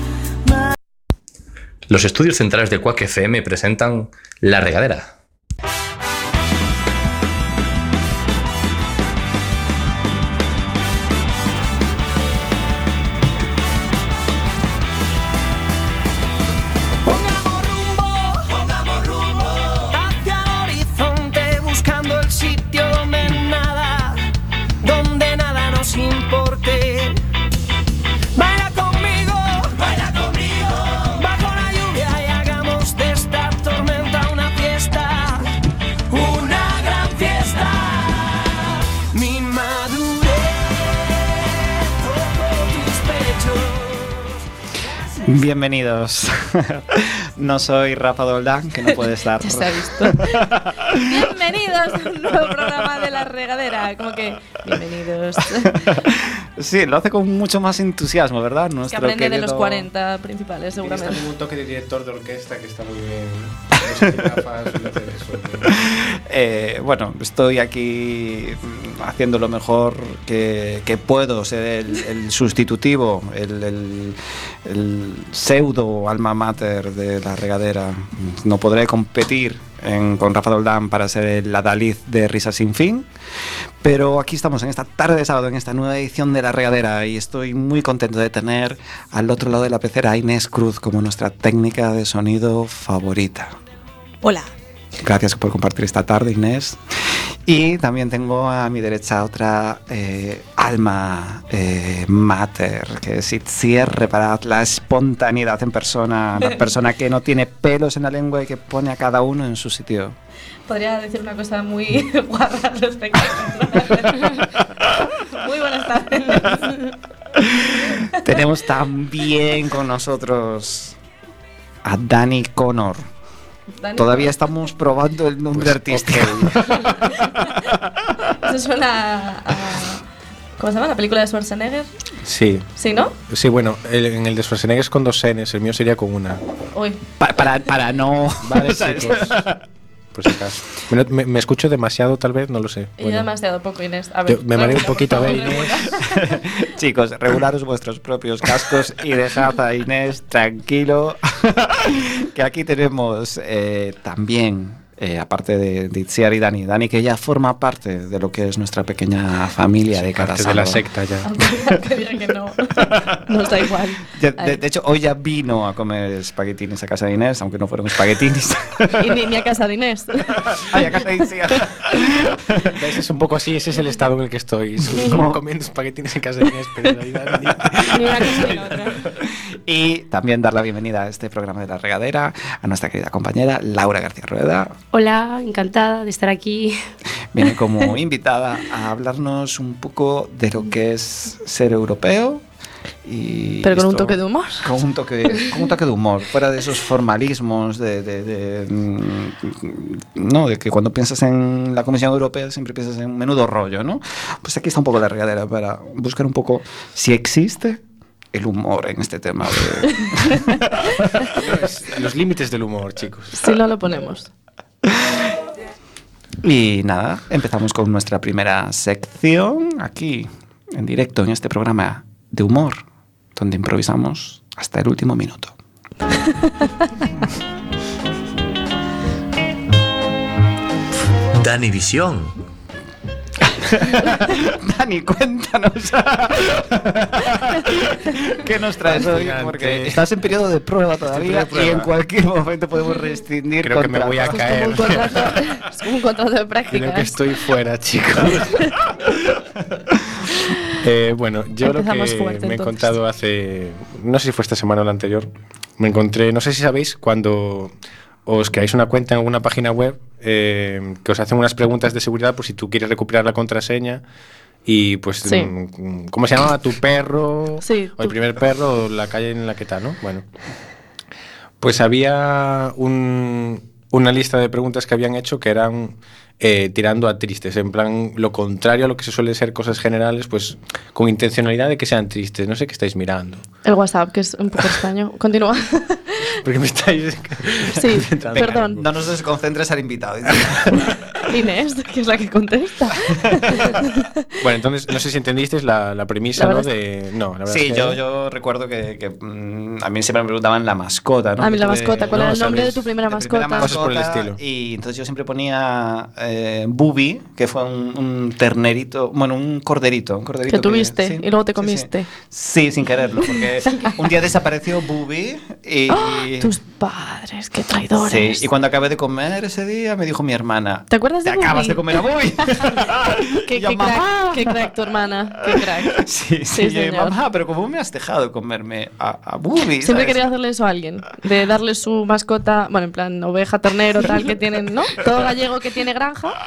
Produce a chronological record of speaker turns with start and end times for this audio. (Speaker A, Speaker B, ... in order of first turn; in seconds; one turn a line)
Speaker A: 1.9-5.1
Speaker B: 17.0-24.2
Speaker B: 24.8-27.2
Speaker B: 28.3-35.5
Speaker B: 36.1-44.4
Speaker C: 45.2-51.1
Speaker D: 48.9-56.0
Speaker C: 55.7-59.9
Speaker D: 58.9-61.2
Speaker E: 60.8-65.8
Speaker C: 63.9-64.3
Speaker C: 65.6-83.1
Speaker C: 83.8-93.5
Speaker C: 95.0-96.8
Speaker C: 97.4-110.2
Speaker D: 110.7-114.5
Speaker D: 115.3-116.9
Speaker C: 117.3-121.0
Speaker C: 121.8-123.0
Speaker D: 123.8-124.3
Speaker C: 124.0-126.8
Speaker E: 125.5-126.5
Speaker D: 128.3-130.0
Speaker D: 130.6-131.9
Speaker E: 132.2-132.7
Speaker D: 132.8-133.2
Speaker E: 133.3-136.4
Speaker D: 136.7-137.0
Speaker C: 137.2-139.6
Speaker E: 138.4-139.4
Speaker E: 140.1-143.3
Speaker D: 143.0-146.1
Speaker E: 144.3-146.1
Speaker C: 146.0-160.8
Speaker E: 159.9-161.4
Speaker D: 161.2-164.6
Speaker C: 164.1-169.2
Speaker D: 168.9-171.0
Speaker C: 170.5-172.8
Speaker E: 172.7-178.7
Speaker C: 174.9-175.4
Speaker F: 177.9-179.0
Speaker C: 178.2-184.7
Speaker F: 184.9-186.8
Speaker C: 187.3-192.4
Speaker C: 193.0-207.8
Speaker D: 193.6-194.7
Speaker C: 208.3-211.3
Speaker E: 211.3-213.5
Speaker D: 213.3-214.3
Speaker C: 216.4-222.8
Speaker C: 223.3-225.5
Speaker A: 231.3-232.4
Speaker C: 233.6-244.5
Speaker E: 238.9-240.1
Speaker E: 241.1-241.9
Speaker E: 243.6-245.3
Speaker D: 244.3-247.2
Speaker E: 246.7-248.7
Speaker E: 250.7-257.7
Speaker D: 251.6-252.9
Speaker E: 258.2-264.0
Speaker E: 264.6-270.2
Speaker D: 265.2-265.5
Speaker D: 267.6-268.1
Speaker E: 271.6-283.4
Speaker D: 283.6-286.2
Speaker E: 286.4-288.9
Speaker D: 287.8-288.8
Speaker C: 288.2-290.9
Speaker E: 290.3-290.8
Speaker D: 291.2-294.1
Speaker C: 293.1-293.7
Speaker E: 294.4-298.0
Speaker D: 296.4-296.7
Speaker C: 297.5-302.3
Speaker D: 301.4-303.7
Speaker E: 302.1-302.9
Speaker C: 303.1-316.5
Speaker E: 303.6-304.4
Speaker D: 310.5-312.1
Speaker D: 315.9-318.4
Speaker C: 318.0-324.7
Speaker D: 320.9-321.8
Speaker D: 323.4-327.1
Speaker C: 325.5-330.2
Speaker D: 329.8-336.4